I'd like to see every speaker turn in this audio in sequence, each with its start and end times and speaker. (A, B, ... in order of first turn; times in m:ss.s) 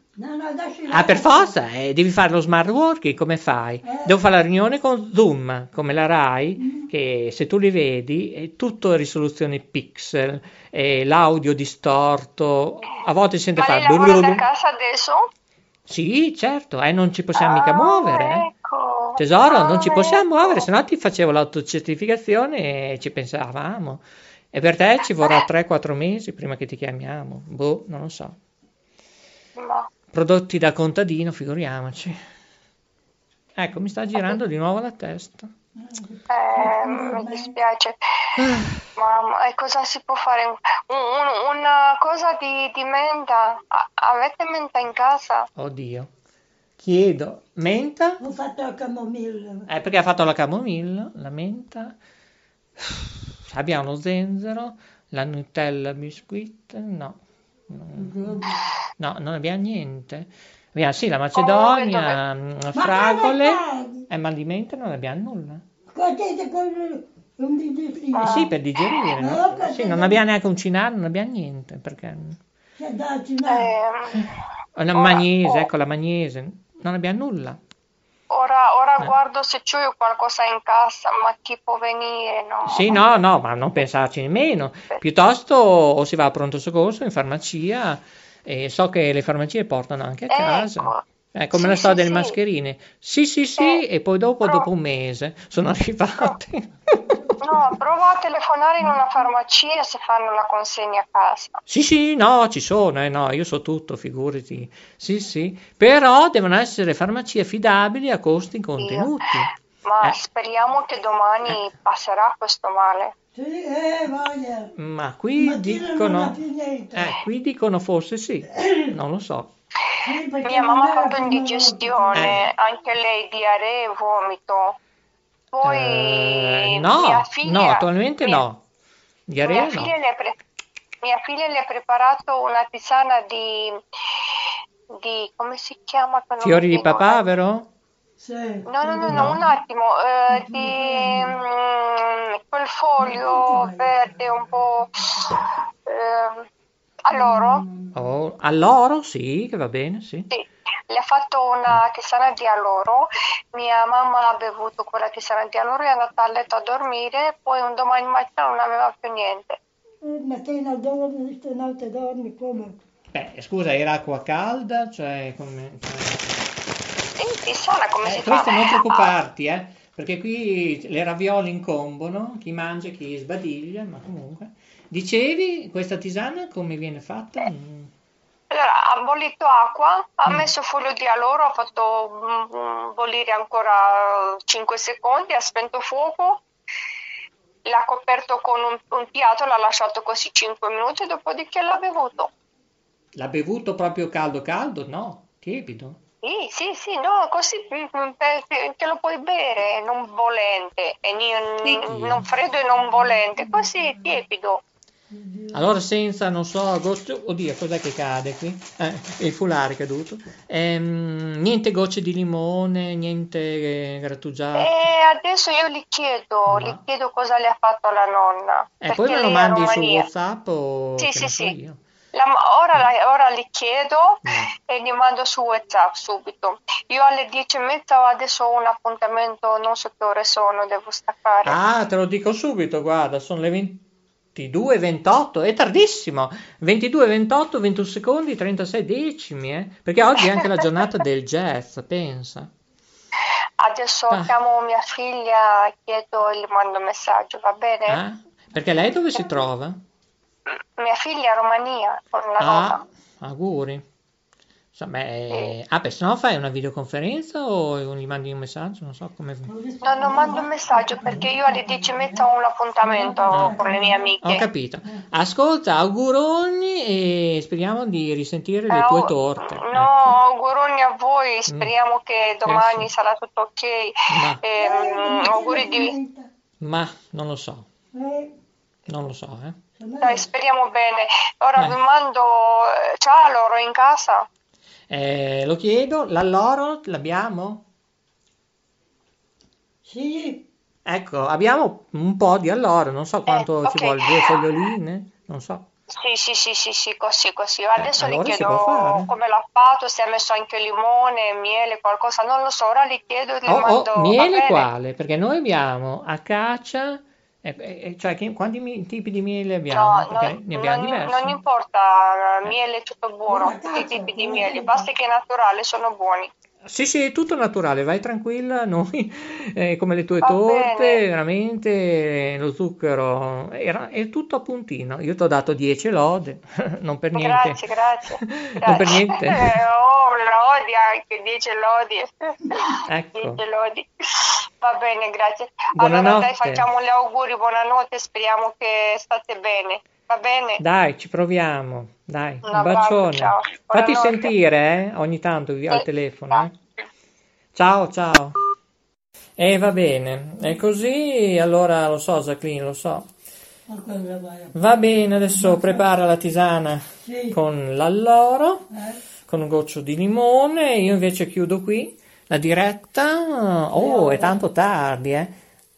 0:00.2-0:01.5 A
0:00.9-0:14.4 B
0:03.8-0:04.1 A
0:06.6-0:06.9 A
0:13.6-0:15.2 C
0:15.9-0:18.5 B
0:17.4-0:20.7 C
0:19.2-0:28.4 B
0:29.6-0:29.9 C
0:30.1-0:32.2 B
0:33.6-0:35.5 B
0:35.8-0:37.5 A
0:36.3-0:38.0 C
0:39.0-0:45.5 C
0:45.6-0:46.1 B
0:46.8-0:48.2 B
0:48.2-0:49.7 A
0:49.7-0:52.0 B
0:52.8-0:58.4 B
0:58.0-0:58.8 A
0:59.0-1:05.6 B
1:01.4-1:02.2 C
1:02.8-1:04.1 A
1:05.9-1:08.5 A
1:08.2-1:08.5 C
1:08.2-1:12.4 B
1:09.2-1:10.2 A
1:12.8-1:13.7 A
1:13.4-1:14.3 C
1:14.8-1:17.6 B
1:14.9-1:15.7 C
1:18.3-1:23.0 C
1:22.6-1:37.1 B
1:30.3-1:32.4 C
1:37.4-1:41.6 C
1:41.7-1:50.2 B
1:48.8-1:49.1 C
1:49.8-1:53.1 C
1:53.4-1:54.7 A
1:54.8-1:56.4 B
1:55.4-1:57.1 A
1:56.9-1:59.5 B
2:00.0-2:02.4 A
2:00.4-2:04.8 C
2:05.5-2:08.4 C
2:05.6-2:08.6 B
2:09.3-2:09.9 B
2:09.4-2:10.4 C
2:11.0-2:13.8 C
2:15.0-2:17.2 C
2:16.4-2:17.7 B
2:18.2-2:19.6 A
2:18.7-2:26.5 C
2:19.1-2:19.4 B
2:20.3-2:21.4 A
2:23.0-2:25.4 A
2:27.0-2:27.6 C
2:27.1-2:28.1 A
2:27.9-2:30.3 B
2:30.3-2:39.6 C
2:40.0-2:42.8 A
2:43.1-2:46.4 B
2:47.2-2:49.2 C
2:48.0-2:57.9 B
2:58.5-3:06.4 C
3:07.6-3:12.3 C
3:13.2-3:16.0 B
3:16.2-3:24.6 C
3:21.6-3:22.2 B
3:23.0-3:23.9 A
3:25.1-3:25.8 A
3:25.5-3:34.8 B
3:34.6-3:40.1 C
3:36.5-3:36.8 B
3:38.8-3:41.8 B
3:41.0-3:41.6 C
3:42.1-3:51.6 C
3:44.2-3:44.5 B
3:51.4-4:02.5 B
4:03.6-4:08.0 C
4:07.9-4:09.8 B
4:10.8-4:12.8 C
4:12.4-4:13.8 B
4:14.7-4:19.5 B
4:19.5-4:22.3 A
4:19.8-4:24.4 C
4:22.8-4:24.1 A
4:23.3-4:23.6 B
4:24.2-4:30.2 B
4:28.7-4:36.0 C
4:31.5-4:31.7 B
4:32.4-4:32.9 B
4:34.1-4:34.4 B
4:34.6-4:36.3 A
4:36.6-4:37.7 B
4:37.9-4:38.3 A
4:38.9-4:39.6 B
4:39.8-4:40.3 A
4:40.0-4:44.3 C
4:44.9-4:47.6 B
4:49.9-4:50.4 A
4:50.8-4:55.7 B
4:53.3-4:54.5 C
4:56.0-5:04.7 C
4:57.8-4:59.1 B
5:03.5-5:11.4 B
5:09.7-5:16.3 C
5:13.3-5:14.9 A
5:16.7-5:27.6 B
5:20.2-5:21.0 C
5:27.2-5:40.6 C
5:28.2-5:29.6 B
5:32.9-5:33.4 B
5:35.8-5:36.7 B
5:40.6-5:46.5 B
5:42.4-5:44.3 C
5:45.7-5:46.5 C
5:47.5-5:48.4 B
5:49.4-5:53.1 B
5:53.7-5:54.5 A
5:54.5-5:58.7 B
5:55.3-5:55.8 A
5:57.0-5:57.4 A
5:58.7-5:59.0 A
5:59.3-6:05.4 B
6:03.8-6:04.4 A